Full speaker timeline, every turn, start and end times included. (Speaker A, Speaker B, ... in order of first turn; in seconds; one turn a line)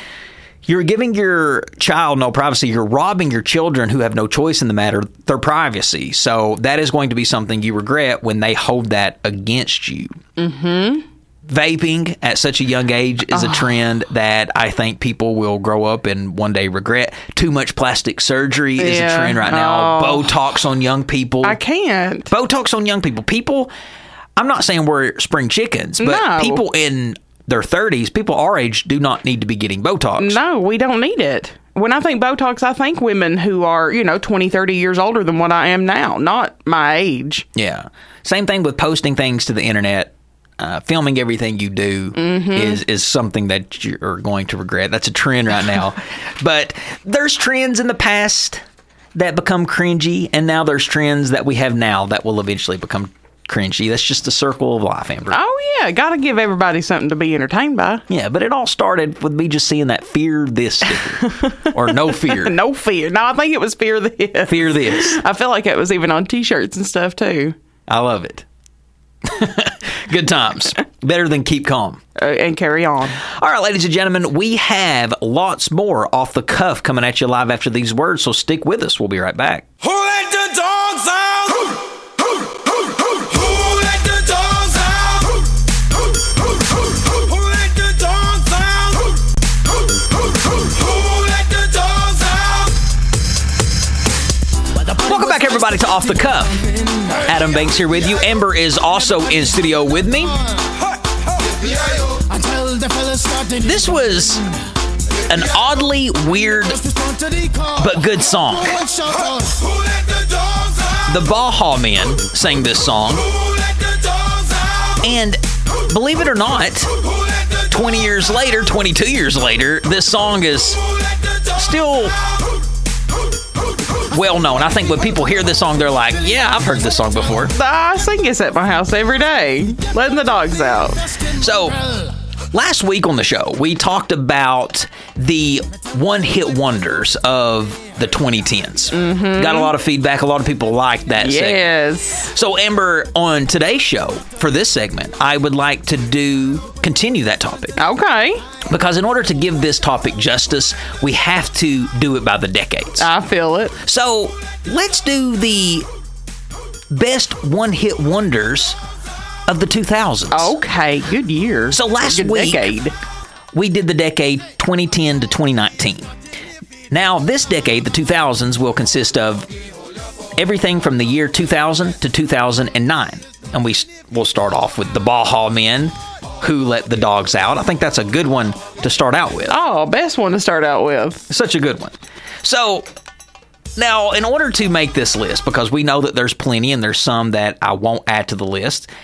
Speaker A: 0.7-10.2
Speaker B: 10.4-11.0
Speaker A: 11.4-21.6
Speaker B: 13.3-13.7
Speaker B: 18.8-20.3
Speaker B: 21.4-22.3
Speaker A: 22.3-23.7
Speaker A: 24.4-30.4
Speaker B: 26.0-26.6
Speaker B: 30.2-37.5
Speaker A: 37.5-48.6
Speaker B: 42.1-42.8
Speaker A: 49.1-55.4
Speaker B: 55.3-58.0
Speaker A: 58.1-62.5
Speaker B: 61.2-67.5
Speaker A: 64.5-65.2
Speaker A: 67.9-68.4
Speaker A: 69.2-72.0
Speaker B: 72.2-73.2
Speaker A: 73.3-79.6
Speaker C: 79.8-81.8
Speaker C: 82.4-85.5
Speaker C: 86.9-89.2
Speaker C: 90.4-92.7
Speaker A: 94.9-100.4
Speaker C: 101.5-102.4
Speaker A: 103.4-104.5
Speaker A: 105.3-106.8
Speaker A: 107.6-109.0
Speaker C: 109.2-111.0
Speaker A: 111.0-113.3
Speaker C: 113.8-114.9
Speaker A: 115.0-116.9
Speaker A: 117.7-120.8
Speaker A: 121.5-122.2
Speaker A: 124.1-127.5
Speaker B: 127.5-131.0
Speaker A: 131.3-131.8
Speaker A: 132.5-141.7
Speaker B: 138.9-139.7
Speaker B: 141.2-142.3
Speaker A: 142.3-147.8
Speaker B: 147.8-148.4
Speaker A: 148.7-153.1
Speaker B: 153.0-153.7
Speaker A: 153.8-155.9
Speaker A: 156.9-158.8
Speaker A: 159.5-160.5
Speaker B: 160.3-162.9
Speaker A: 161.7-162.7
Speaker A: 163.5-166.1
Speaker A: 166.9-169.5
Speaker A: 170.4-179.6
Speaker B: 179.5-181.2
Speaker A: 181.3-182.9
Speaker A: 183.8-188.9